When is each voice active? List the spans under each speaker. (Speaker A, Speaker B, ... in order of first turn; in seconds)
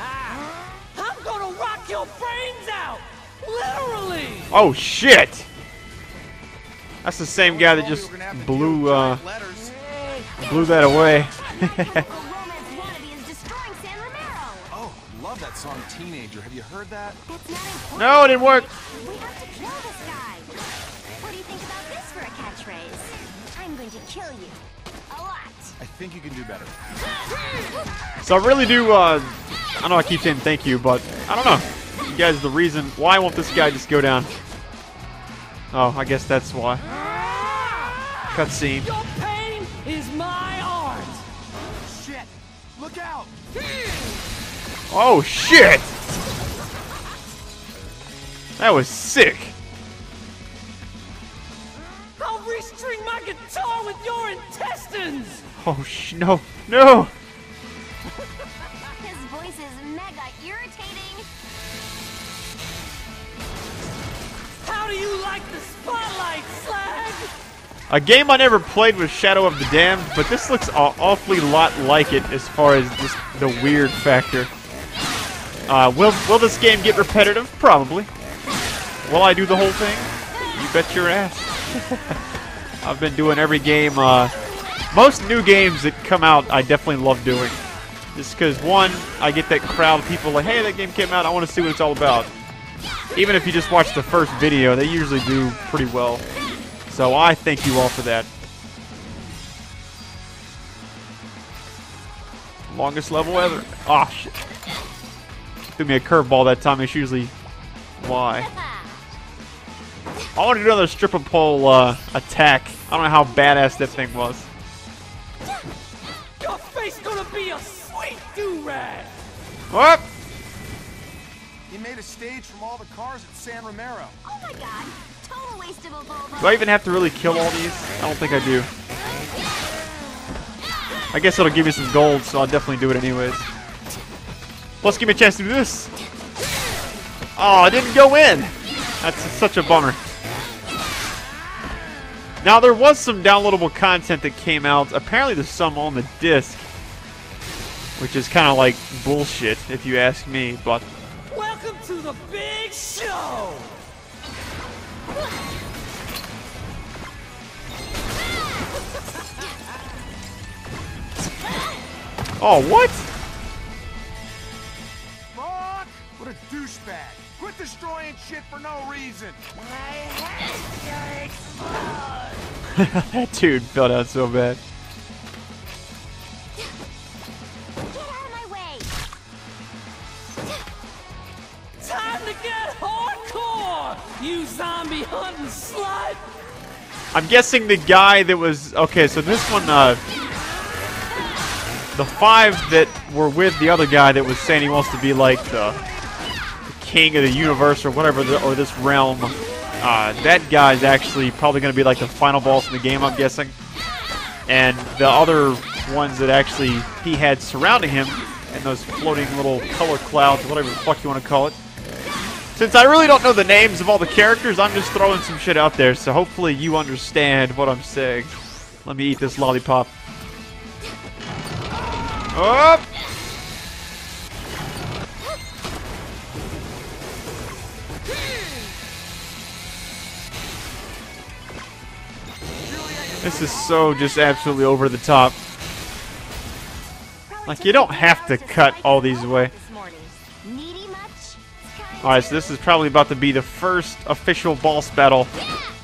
Speaker A: 0.9-4.5, 37.0-38.1, 38.8-41.2, 52.2-55.4, 64.6-67.3, 116.4-119.1, 151.3-153.8, 169.6-172.4, 181.8-186.2
Speaker B: 4.5-5.5, 7.0-9.2, 10.4-12.0, 17.9-18.7, 28.2-34.3, 35.7-36.8, 38.3-38.9, 44.9-46.0, 48.6-49.5, 55.6-57.1, 67.9-74.5, 75.7-78.1, 79.0-82.2, 82.8-84.3, 84.9-87.6, 88.1-92.3, 93.1-96.2, 96.9-98.3, 102.7-104.3, 105.8-107.3, 108.0-108.5, 110.3-114.5, 119.7-120.0, 126.4-128.7, 131.1-133.4, 134.8-135.9, 137.3-140.0, 142.4-146.7, 148.0-150.8, 162.4-163.1, 172.7-174.6, 187.1-190.0, 191.9-195.8, 196.7-203.5, 204.5-211.6, 212.6-218.3, 218.8-219.9, 222.3-222.8, 233.2-235.4, 237.4-239.5, 242.0-245.3
Speaker C: 7.4-9.8, 14.7-17.2, 25.8-26.7, 41.8-43.3, 121.7-124.2, 165.3-169.4, 232.6-234.6
Speaker D: 11.0-14.7, 17.3-20.5, 21.2-25.8, 59.0-61.3, 124.2-126.7, 177.8-178.9, 237.2-242.6, 245.4-245.7